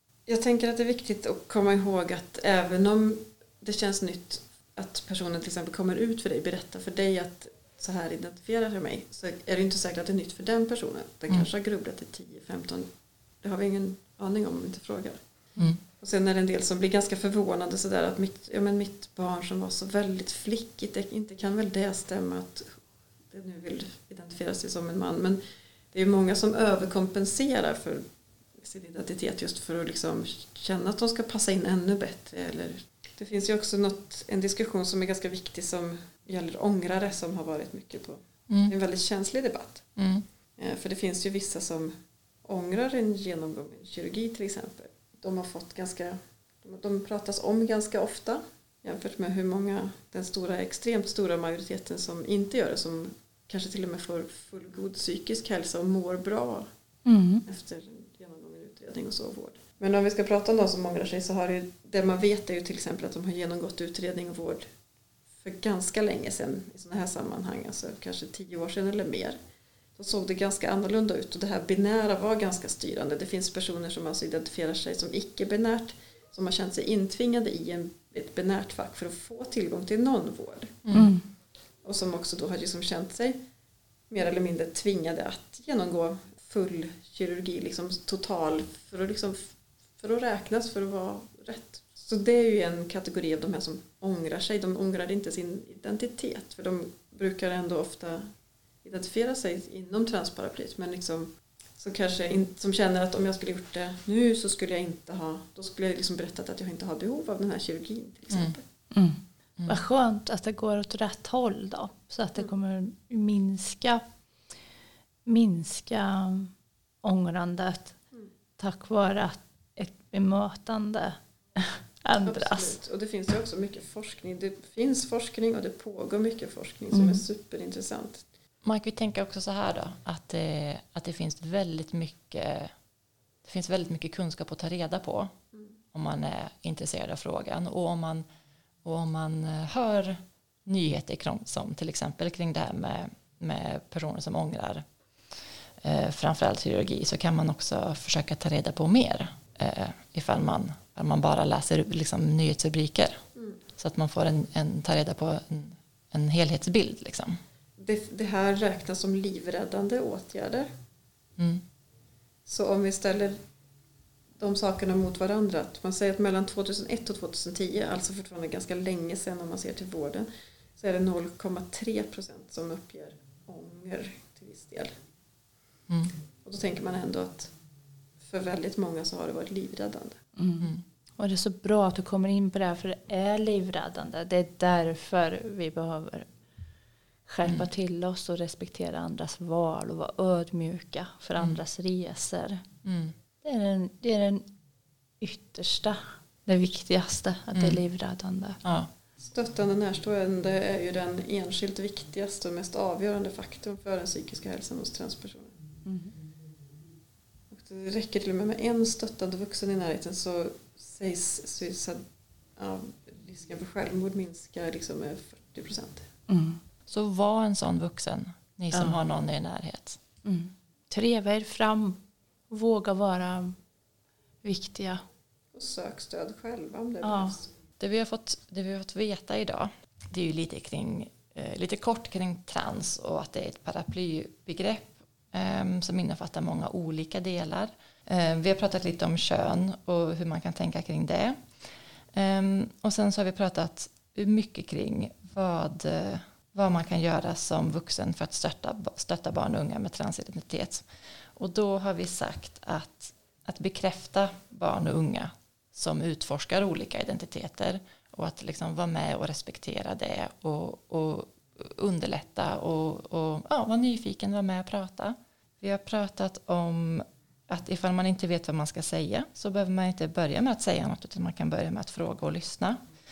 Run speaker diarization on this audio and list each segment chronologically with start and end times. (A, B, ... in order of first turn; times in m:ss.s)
0:00.3-0:12.9 A
0:13.4-0:15.2 A
0:16.0-0:25.4 A
0:25.9-0:28.1 A
0:28.6-0:39.9 A
0:38.5-0:38.7 B
0:40.0-0:40.3 B
0:40.6-0:56.7 A
0:57.1-0:57.4 C
0:57.5-1:04.7 A
1:05.4-1:09.4 A
1:10.0-1:20.8 A
1:20.8-1:21.1 B
1:20.9-1:21.3 C
1:21.8-1:23.4 A
1:24.1-1:38.3 A
1:38.8-1:48.6 A
1:48.9-1:54.0 C
1:55.3-1:56.5 C
1:57.0-1:58.0 C
1:58.6-2:02.8 C
2:02.2-2:08.3 A
2:06.9-2:07.2 C
2:08.6-2:12.7 B
2:13.4-2:15.3 B
2:15.9-2:18.2 B
2:18.8-2:24.9 B
2:25.8-2:33.2 B
2:33.8-2:37.4 B
2:37.8-2:40.7 A
2:41.4-2:41.6 B
2:42.5-2:43.4 A
2:44.4-2:54.9 A
2:55.9-2:56.1 B
2:56.4-2:57.5 A
2:58.2-3:00.2 A
3:00.4-3:06.3 C
3:07.3-3:12.6 C
3:12.8-3:13.2 B
3:13.4-3:14.5 C
3:15.2-3:18.6 C
3:17.5-3:17.8 B
3:18.6-3:18.9 B
3:19.2-3:25.6 A
3:25.8-3:26.1 C
3:27.5-3:32.0 A
3:32.6-3:36.1 A
3:36.3-3:36.6 C
3:36.9-3:40.0 B
3:38.7-3:39.0 C
3:40.2-3:43.6 C
3:44.4-3:45.0 C
3:45.5-3:47.5 A
3:47.0-3:47.4 C
3:47.8-4:01.4 B
4:02.1-4:32.8 B